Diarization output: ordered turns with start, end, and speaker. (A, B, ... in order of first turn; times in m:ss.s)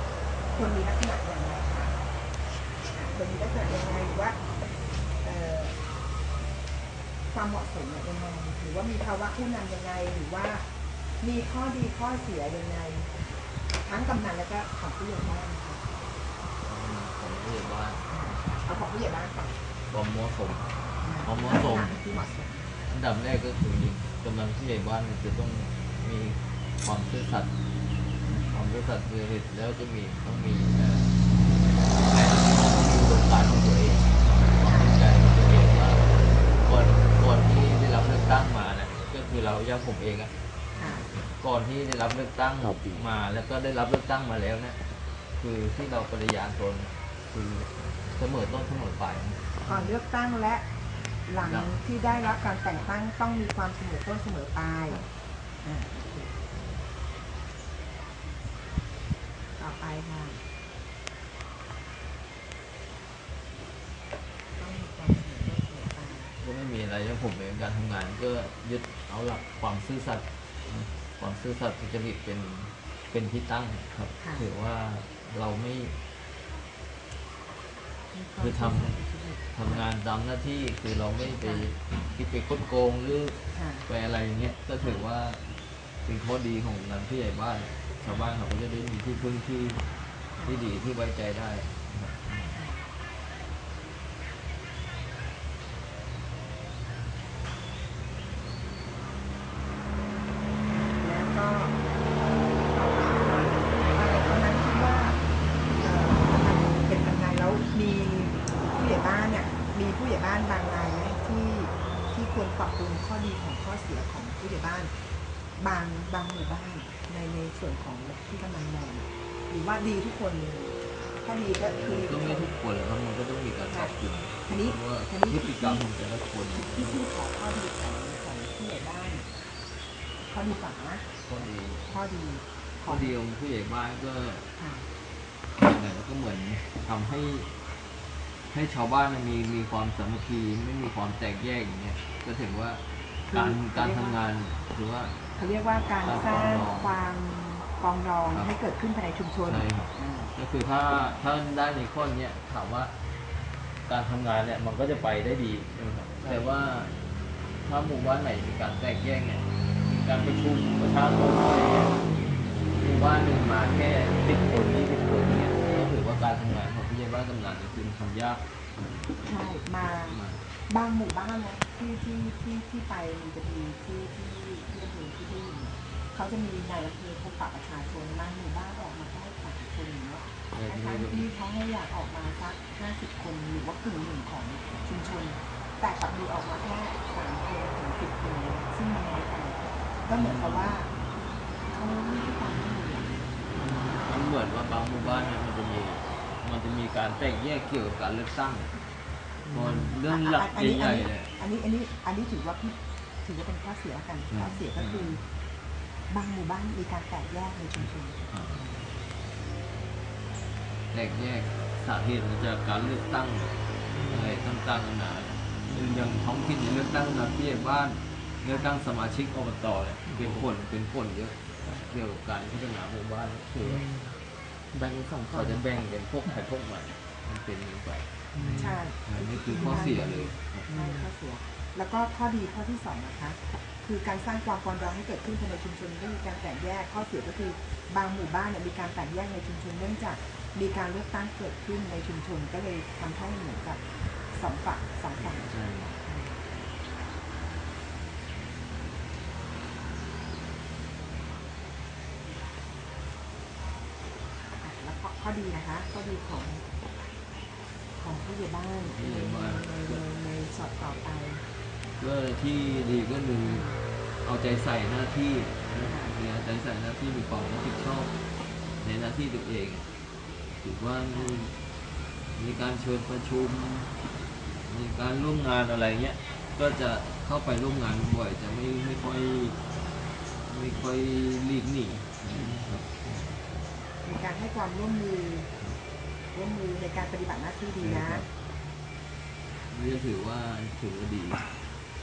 0:00.5-0:02.0 A
0:02.8-0:04.4 A
0:05.2-0:05.8 A
0:07.3-0:10.7 A
0:11.2-0:13.1 A
0:13.8-0:15.8 A
0:16.6-0:18.1 B
0:18.1-0:19.5 A
0:19.9-0:20.7 B
0:21.0-0:22.7 A
0:21.2-0:22.0 B
0:22.9-0:27.5 B
0:28.2-0:28.5 A
0:28.5-0:31.2 B
0:31.9-0:40.3 B
0:34.5-0:34.9 A
0:40.8-0:41.1 A
0:41.3-0:44.8 B
0:45.4-0:49.9 B
0:49.6-0:50.7 A
0:51.2-0:55.0 A
0:51.4-0:51.8 B
0:55.6-0:56.3 A
0:59.6-1:00.4 A
1:04.6-1:06.4 A
1:06.4-1:16.0 B
1:14.2-1:14.5 A
1:18.1-1:19.9 A
1:18.4-1:19.0 B
1:19.5-1:29.8 B
1:23.5-1:23.8 A
1:28.0-1:28.3 A
1:30.4-1:32.6 B
1:32.5-1:32.9 A
1:40.9-1:41.8 A
1:42.6-1:54.9 A
1:55.6-2:02.6 A
2:01.7-2:07.0 B
2:03.7-2:05.8 A
2:06.5-2:09.3 A
2:10.2-2:11.0 A
2:11.2-2:11.9 B
2:11.9-2:13.1 A
2:12.8-2:14.5 B
2:14.6-2:14.9 A
2:15.5-2:17.5 B
2:18.5-2:25.2 B
2:23.3-2:24.2 A
2:25.3-2:30.3 A
2:26.0-2:26.9 B
2:29.4-2:32.9 B
2:33.8-2:37.0 B
2:37.6-2:42.0 B
2:42.6-2:49.1 B
2:49.2-3:10.9 A
2:49.8-2:50.4 B
3:00.5-3:01.3 B
3:10.1-3:10.8 B
3:11.7-3:13.3 A
3:13.6-3:14.0 C
3:14.0-3:18.7 B
3:19.5-3:19.9 C
3:19.5-3:21.3 B
3:19.6-3:25.2 A
3:24.3-3:25.2 B
3:26.1-3:28.3 A
3:30.9-3:43.9 B
3:33.9-3:34.3 C
3:38.5-3:38.9 A
3:40.1-3:40.4 C
3:43.6-3:44.2 C
3:44.7-3:45.6 C
3:45.3-3:50.7 B
3:48.3-3:48.8 C
3:48.5-4:05.5 A
3:49.5-3:49.9 C
3:50.6-3:51.1 C
4:05.1-4:06.0 B
4:06.0-4:06.4 A
4:14.6-4:16.7 A
4:18.0-4:21.4 A
4:18.9-4:20.0 B
4:22.0-4:23.7 B
4:23.4-4:23.8 A
4:24.2-4:28.1 B
4:25.8-4:26.1 A
4:28.8-4:29.9 B
4:30.6-4:31.6 B
4:31.1-4:31.4 A
4:32.3-4:34.0 B
4:34.6-4:39.6 B
4:40.4-4:43.4 B
4:44.0-4:45.5 A
4:46.3-4:48.2 A
4:47.8-4:48.3 B
4:49.7-4:51.5 B